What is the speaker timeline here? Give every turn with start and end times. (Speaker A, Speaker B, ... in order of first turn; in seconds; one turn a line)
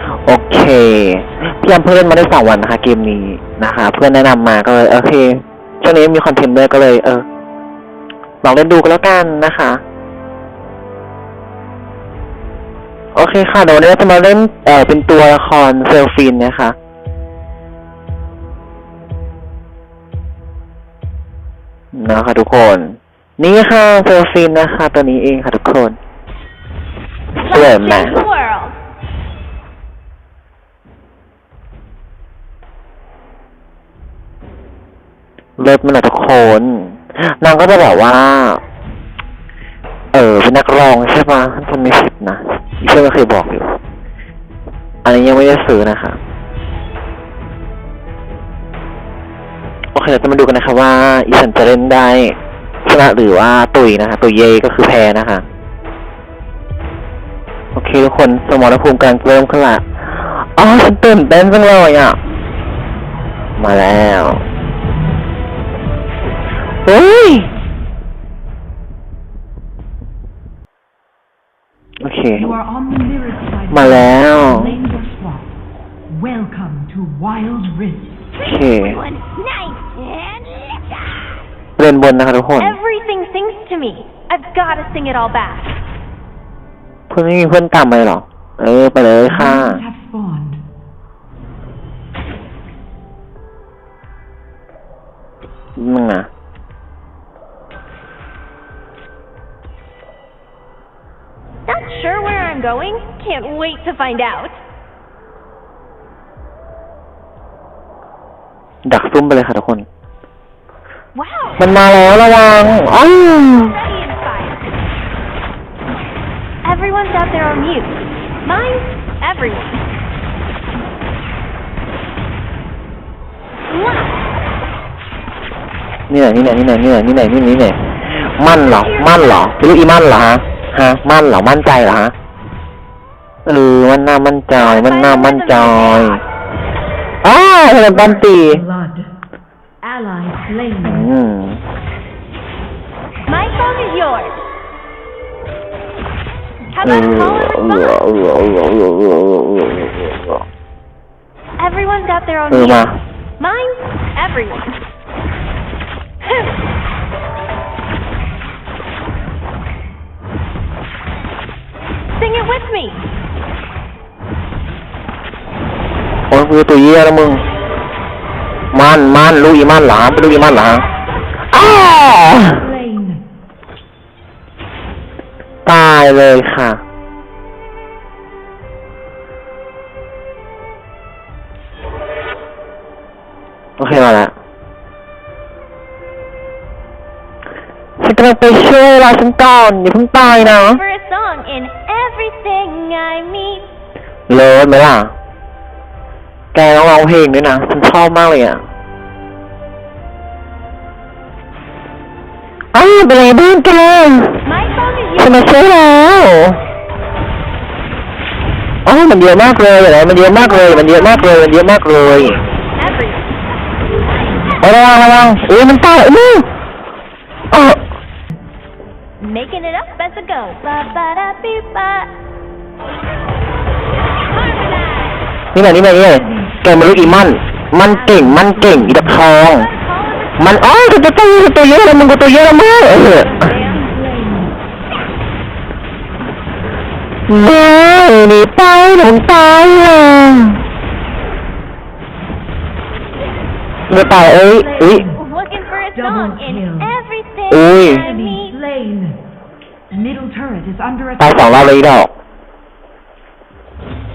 Speaker A: 0.2-7.2
Speaker A: 8.4-9.8
Speaker A: 13.1-16.8
Speaker A: 21.9-26.0
Speaker A: 27.4-28.2
Speaker B: 27.4-28.8
Speaker A: 35.6-38.6
Speaker A: 40.1-43.8
Speaker A: 45.0-46.2
Speaker A: 49.9-55.4
Speaker A: 57.7-62.2
Speaker A: 63.6-64.4
Speaker A: 66.8-67.5
Speaker A: 72.0-72.5
Speaker C: 72.3-75.5
Speaker A: 73.7-74.8
Speaker C: 76.1-78.2
Speaker A: 78.4-79.0
Speaker B: 78.9-80.7
Speaker A: 81.8-82.8
Speaker B: 82.6-85.8
Speaker A: 87.1-89.8
Speaker C: 89.2-90.6
Speaker A: 95.8-96.3
Speaker B: 101.7-104.6
Speaker A: 108.8-109.9
Speaker B: 111.1-111.6
Speaker A: 111.6-113.7
Speaker B: 113.3-114.6
Speaker B: 116.6-119.8
Speaker B: 123.7-124.2
Speaker A: 126.1-127.8
Speaker A: 128.4-132.1
Speaker A: 133.4-136.2
Speaker B: 134.5-136.2
Speaker A: 137.2-138.6
Speaker C: 137.9-139.1
Speaker C: 139.8-141.1
Speaker A: 140.8-141.6
Speaker B: 143.3-144.4
Speaker B: 146.7-148.0
Speaker A: 146.8-150.2
Speaker B: 151.6-152.9
Speaker A: 152.5-153.0
Speaker B: 153.4-154.8
Speaker B: 162.2-163.1
Speaker A: 166.3-167.4
Speaker A: 168.7-170.8
Speaker A: 171.5-172.7
Speaker C: 172.6-173.2
Speaker A: 175.7-176.8
Speaker A: 183.8-184.3
Speaker A: 188.0-190.8
Speaker B: 190.2-193.7
Speaker A: 194.3-195.1
Speaker A: 196.5-198.6
Speaker A: 202.7-204.4
Speaker B: 204.4-205.5
Speaker A: 205.2-206.6
Speaker A: 208.8-212.4
Speaker B: 210.2-211.4
Speaker B: 212.8-213.3
Speaker A: 214.6-216.5
Speaker A: 217.5-217.8
Speaker B: 219.2-222.1
Speaker B: 224.4-225.2
Speaker A: 225.5-229.7
Speaker C: 226.1-227.0
Speaker C: 227.9-229.2
Speaker B: 229.4-230.4
Speaker A: 230.4-233.5
Speaker C: 233.2-234.6
Speaker B: 233.4-233.9
Speaker A: 237.3-240.6
Speaker A: 243.9-245.0
Speaker C: 244.5-245.2
Speaker B: 245.1-248.6
Speaker C: 245.9-246.9
Speaker A: 247.5-248.0
Speaker C: 247.8-249.2
Speaker C: 249.9-251.6
Speaker A: 251.2-252.1